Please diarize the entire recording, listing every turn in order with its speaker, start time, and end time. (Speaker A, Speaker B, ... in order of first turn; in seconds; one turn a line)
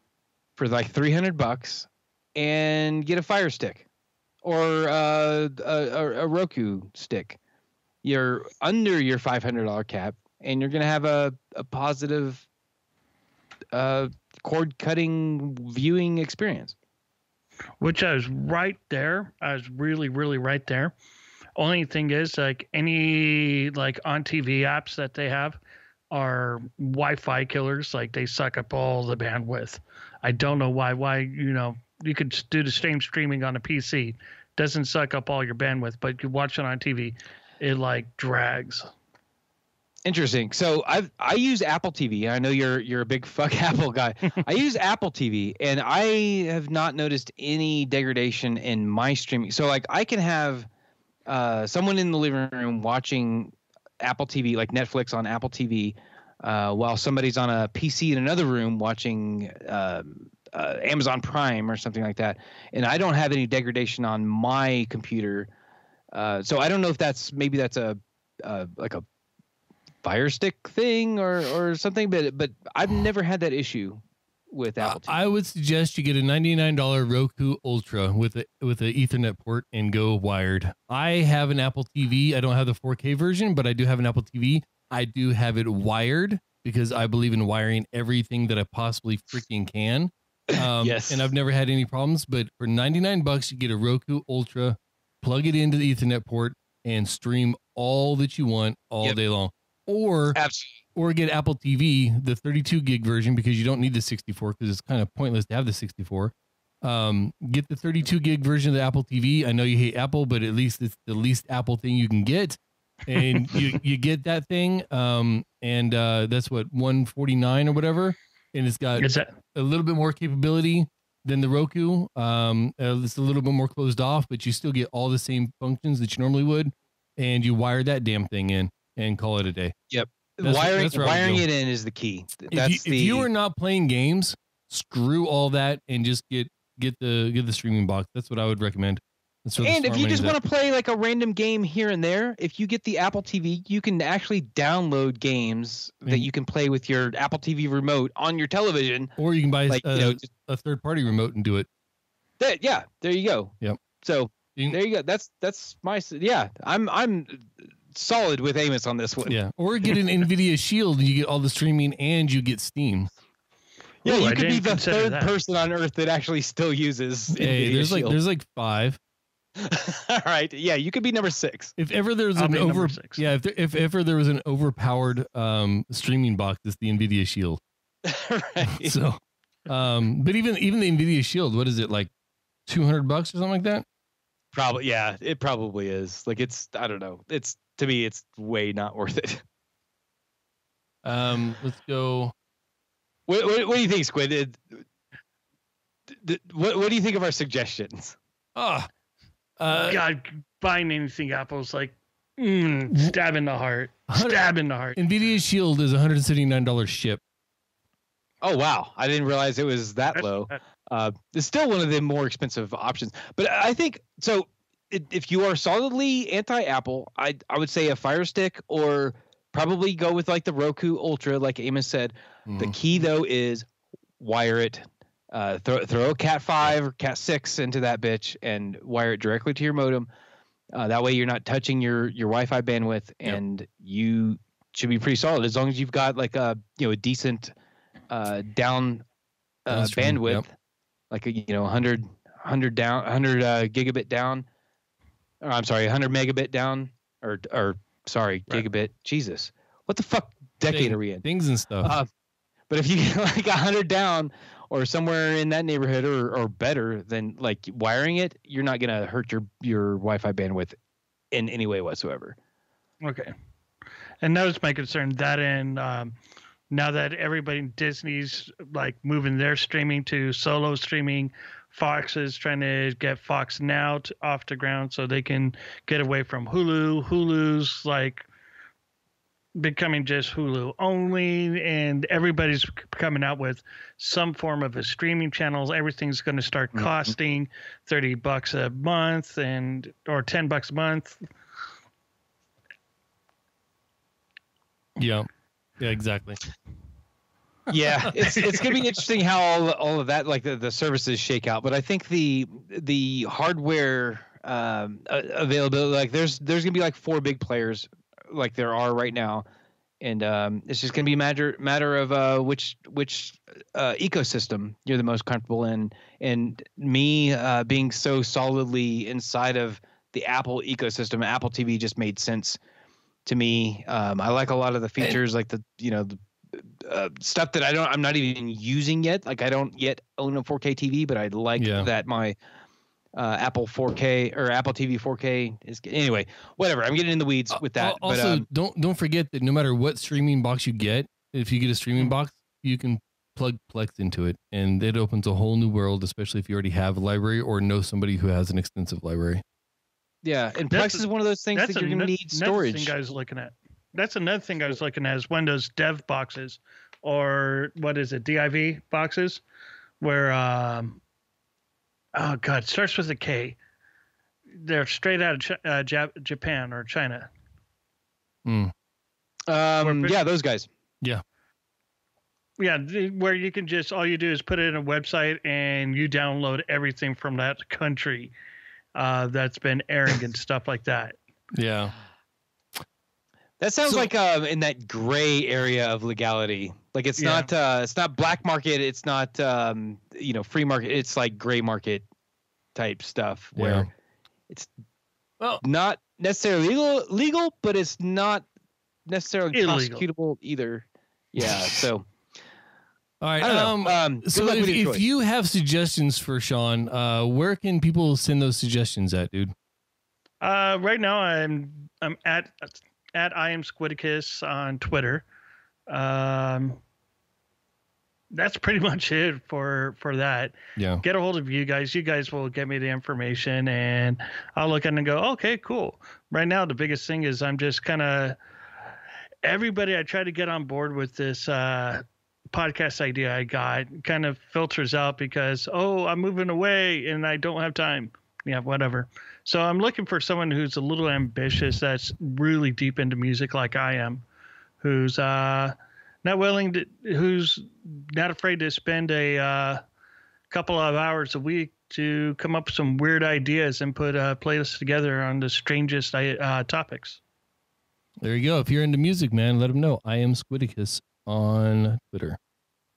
Speaker A: 0.6-3.8
Speaker A: 4.4-7.4
Speaker A: 8.0-12.4
Speaker A: 13.7-16.7
Speaker B: 17.8-20.9
Speaker B: 21.6-25.6
Speaker B: 26.1-38.9
Speaker A: 40.0-50.7
Speaker A: 51.3-65.5
Speaker A: 66.1-69.0
Speaker A: 70.0-75.2
Speaker C: 74.8-100.4
Speaker A: 90.5-91.3
Speaker A: 100.3-100.8
Speaker C: 100.9-129.7
Speaker B: 119.0-119.3
Speaker A: 129.9-133.3
Speaker C: 130.4-131.4
Speaker C: 132.5-140.3
Speaker A: 139.6-149.1
Speaker C: 149.2-151.7
Speaker A: 149.7-150.3
Speaker A: 152.4-159.4
Speaker C: 159.3-163.1
Speaker B: 164.0-165.3
Speaker A: 164.0-168.2
Speaker C: 167.3-169.0
Speaker A: 169.6-171.7
Speaker C: 171.8-177.6
Speaker B: 172.3-173.2
Speaker A: 178.0-179.0
Speaker C: 178.7-182.1
Speaker C: 182.7-183.8
Speaker A: 184.5-189.4
Speaker C: 191.0-192.3
Speaker A: 193.3-194.6
Speaker A: 196.1-198.2
Speaker C: 198.5-198.9
Speaker C: 199.6-200.0
Speaker B: 199.8-205.0
Speaker C: 204.1-207.2
Speaker A: 208.4-223.7
Speaker B: 210.1-210.5
Speaker C: 222.5-222.8
Speaker A: 224.2-230.1
Speaker A: 230.7-237.5
Speaker A: 238.1-239.0
Speaker A: 239.7-240.5
Speaker C: 239.7-240.4
Speaker A: 241.1-244.4
Speaker A: 245.4-251.2
Speaker C: 250.7-252.0
Speaker A: 251.8-252.1
Speaker A: 252.7-260.8
Speaker A: 261.3-262.4
Speaker B: 263.0-263.3
Speaker B: 264.2-266.1
Speaker B: 266.7-278.2
Speaker B: 279.6-291.2
Speaker A: 286.7-287.1
Speaker C: 295.0-295.3
Speaker C: 295.8-296.4
Speaker A: 297.7-309.4
Speaker C: 298.2-298.6
Speaker A: 310.0-322.6
Speaker A: 323.2-332.4
Speaker C: 331.6-331.9
Speaker A: 333.1-338.4
Speaker C: 337.5-349.4
Speaker A: 350.2-352.9
Speaker B: 350.7-359.4
Speaker B: 360.0-361.0
Speaker B: 362.1-363.6
Speaker B: 364.6-367.3
Speaker C: 368.4-368.7
Speaker A: 369.5-370.7
Speaker B: 369.8-370.2
Speaker B: 372.6-378.3
Speaker B: 378.9-381.2
Speaker C: 381.5-381.9
Speaker A: 383.6-392.1
Speaker C: 383.8-384.1
Speaker B: 387.2-387.5
Speaker A: 392.7-393.9
Speaker C: 393.6-393.9
Speaker A: 395.6-398.4
Speaker A: 399.1-402.1
Speaker B: 399.5-400.1
Speaker C: 403.2-409.5
Speaker A: 403.4-405.0
Speaker B: 410.4-415.2
Speaker B: 415.9-416.8
Speaker B: 418.3-428.4
Speaker C: 420.8-421.0
Speaker B: 429.4-444.2
Speaker B: 444.8-449.8
Speaker B: 450.5-457.2
Speaker C: 458.2-462.4